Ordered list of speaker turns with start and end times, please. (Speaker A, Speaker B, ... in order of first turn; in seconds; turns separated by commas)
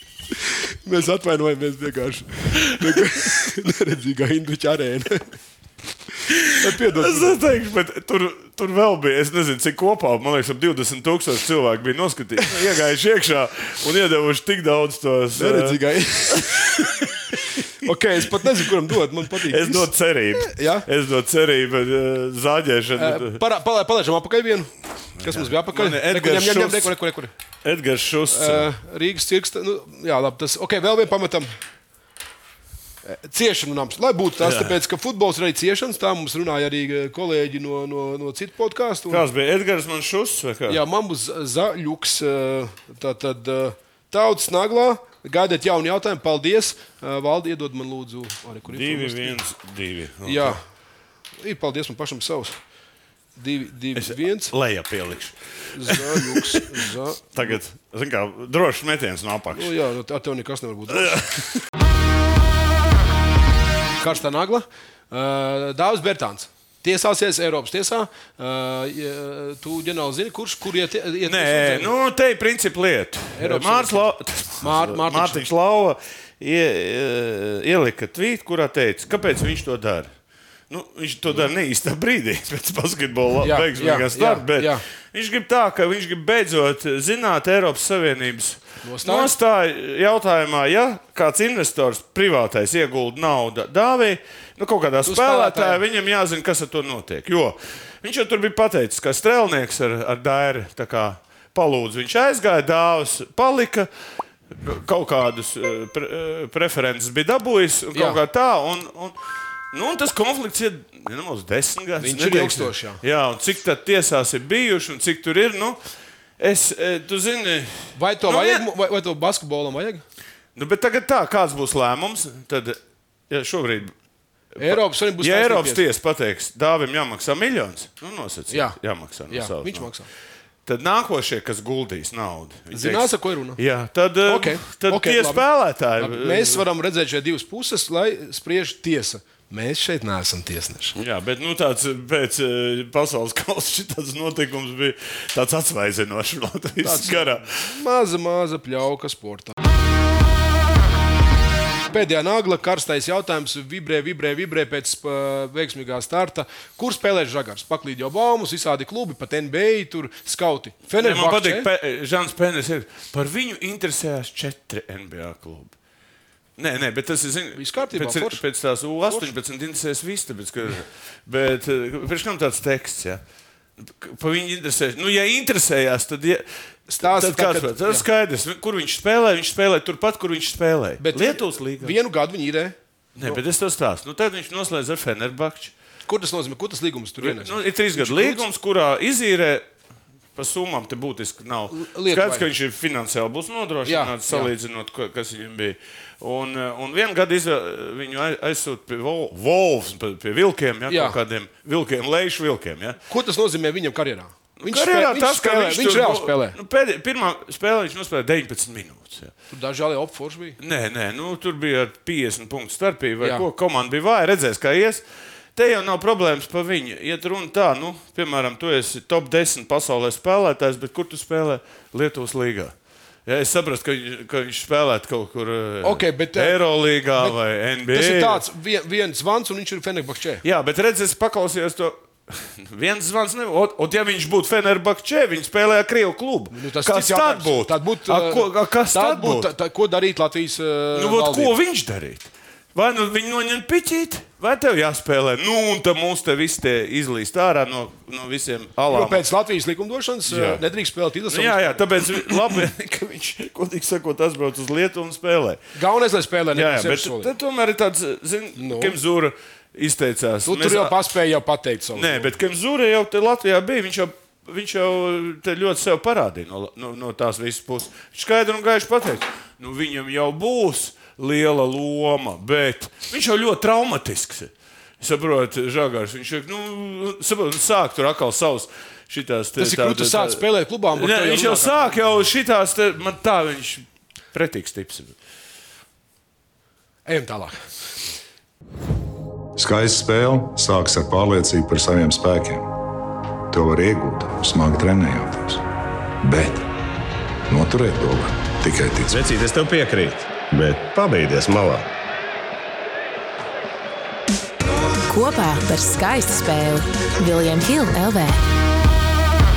Speaker A: 0.8-5.3, Speaker B: 2.6-3.1, Speaker B: 6.3-15.8, Speaker A: 6.6-7.4, Speaker A: 15.4-16.9, Speaker B: 16.3-17.6, Speaker A: 17.8-20.9, Speaker B: 18.2-18.7, Speaker B: 19.4-23.4, Speaker A: 23.0-27.3, Speaker B: 25.2-26.9, Speaker B: 27.6-28.7, Speaker A: 28.3-31.5, Speaker A: 33.0-39.2, Speaker B: 34.4-34.8, Speaker B: 39.1-40.8, Speaker A: 40.7-49.4, Speaker B: 48.7-50.6, Speaker A: 50.2-50.6, Speaker A: 51.4-52.6, Speaker A: 53.4-54.5, Speaker B: 54.0-56.7, Speaker A: 55.7-57.6, Speaker B: 57.3-59.8, Speaker A: 59.5-61.2, Speaker B: 60.9-61.6, Speaker A: 64.0-71.9, Speaker B: 71.2-80.1, Speaker A: 73.4-75.4, Speaker B: 80.7-103.9, Speaker A: 83.4-84.8, Speaker A: 88.8-89.3, Speaker A: 95.0-95.8, Speaker B: 104.6-109.2, Speaker A: 107.9-108.2, Speaker B: 109.7-115.8, Speaker A: 112.0-113.0, Speaker B: 116.4-118.7, Speaker A: 118.0-120.0, Speaker B: 120.6-122.8, Speaker B: 123.3-123.9, Speaker B: 124.6-129.9, Speaker A: 124.6-125.8, Speaker A: 128.5-128.8, Speaker A: 129.3-130.1, Speaker B: 130.7-136.7, Speaker A: 132.7-133.6, Speaker A: 134.3-135.4, Speaker A: 136.0-141.0, Speaker B: 141.0-147.7, Speaker A: 146.8-149.5, Speaker A: 151.9-161.7, Speaker B: 161.0-165.7, Speaker B: 166.6-173.2, Speaker A: 167.6-168.4, Speaker A: 169.1-169.3, Speaker B: 173.8-176.5, Speaker A: 176.9-178.1, Speaker B: 177.0-182.0, Speaker A: 181.0-183.4, Speaker B: 183.2-185.7, Speaker A: 186.1-188.4, Speaker B: 187.2-189.7, Speaker B: 190.4-203.0, Speaker A: 191.7-192.5, Speaker A: 193.8-194.5, Speaker A: 200.9-201.2, Speaker A: 203.1-206.6, Speaker B: 204.6-209.3, Speaker A: 209.5-210.6, Speaker B: 210.6-215.0, Speaker B: 215.6-222.7, Speaker B: 223.3-228.4, Speaker A: 225.8-226.6, Speaker A: 227.9-230.4, Speaker B: 230.4-239.5, Speaker A: 236.5-241.5, Speaker B: 240.9-249.2, Speaker A: 248.9-252.3, Speaker B: 250.3-250.6, Speaker B: 251.3-255.6, Speaker A: 255.8-257.3, Speaker B: 256.5-261.0, Speaker A: 258.6-259.0, Speaker A: 260.5-262.3, Speaker B: 261.9-285.1, Speaker A: 279.6-282.0, Speaker A: 287.1-287.6, Speaker C: 289.6-292.7, Speaker C: 293.5-295.6, Speaker C: 296.2-296.7, Speaker C: 297.5-299.2, Speaker D: 299.1-301.9, Speaker E: 305.1-308.4